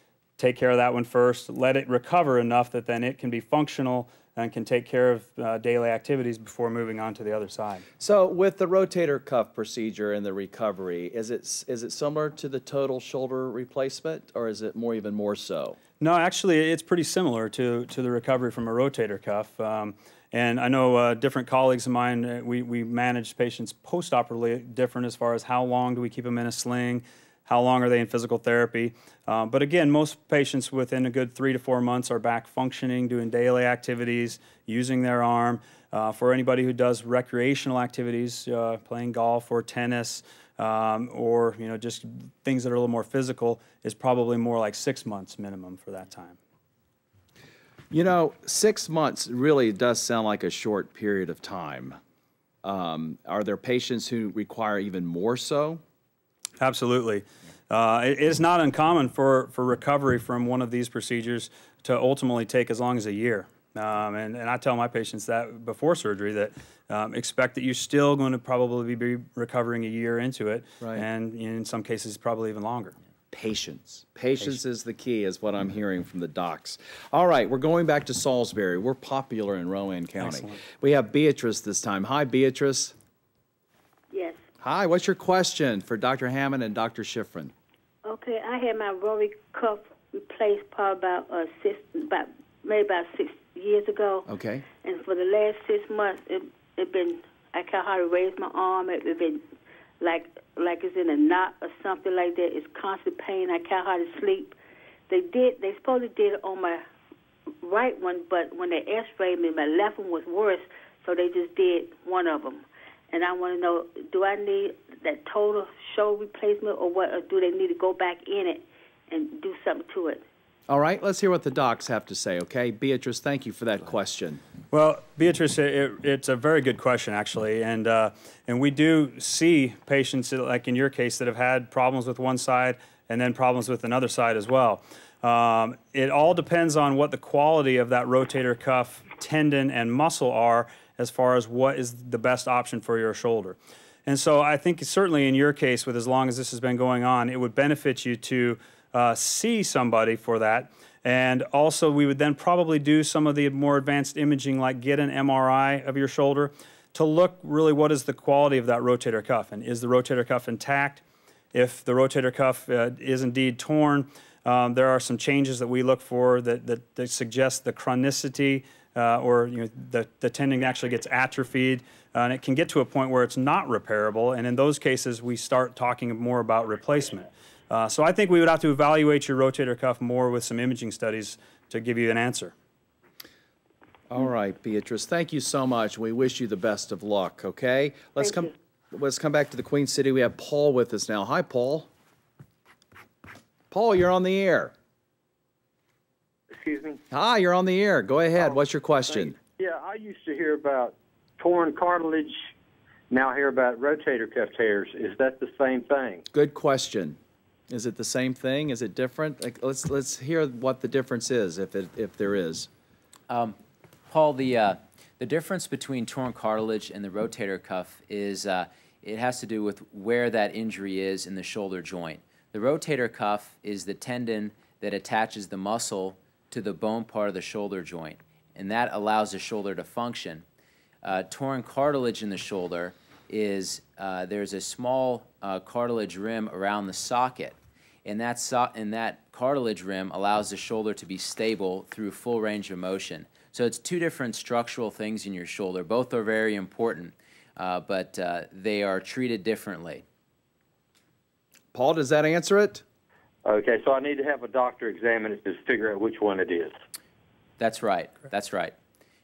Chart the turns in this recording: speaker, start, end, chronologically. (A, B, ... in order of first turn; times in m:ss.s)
0:00.4-0:07.9 A
0:08.0-0:15.8 B
0:16.0-0:46.4 A
0:47.9-0:52.0 B
0:52.6-0:55.8 B
0:56.6-1:13.0 A
1:10.8-1:11.1 B
1:13.3-1:23.0 B
1:20.2-1:20.6 A
1:24.1-1:24.4 C
1:24.6-1:27.5 B
1:28.0-1:34.3 C
1:34.3-1:34.6 B
1:34.8-1:39.4 C
1:40.0-1:44.6 C
1:45.1-1:46.8 C
1:47.6-2:00.2 C
2:00.7-2:04.4 B
2:04.7-2:41.0 A
2:41.5-3:02.5 A
3:04.1-3:11.9 B
3:13.7-3:14.7 B
3:16.5-3:17.0 D
3:17.1-3:19.4 B
3:19.1-3:22.4 D
3:23.1-3:26.2 D
3:26.3-3:27.2 B
3:27.7-3:32.7 B
3:33.3-3:33.6 E
3:34.1-3:50.4 E
3:51.0-4:10.0 E
4:11.7-4:12.8 B
4:13.5-4:16.8 D
4:17.6-4:18.8 E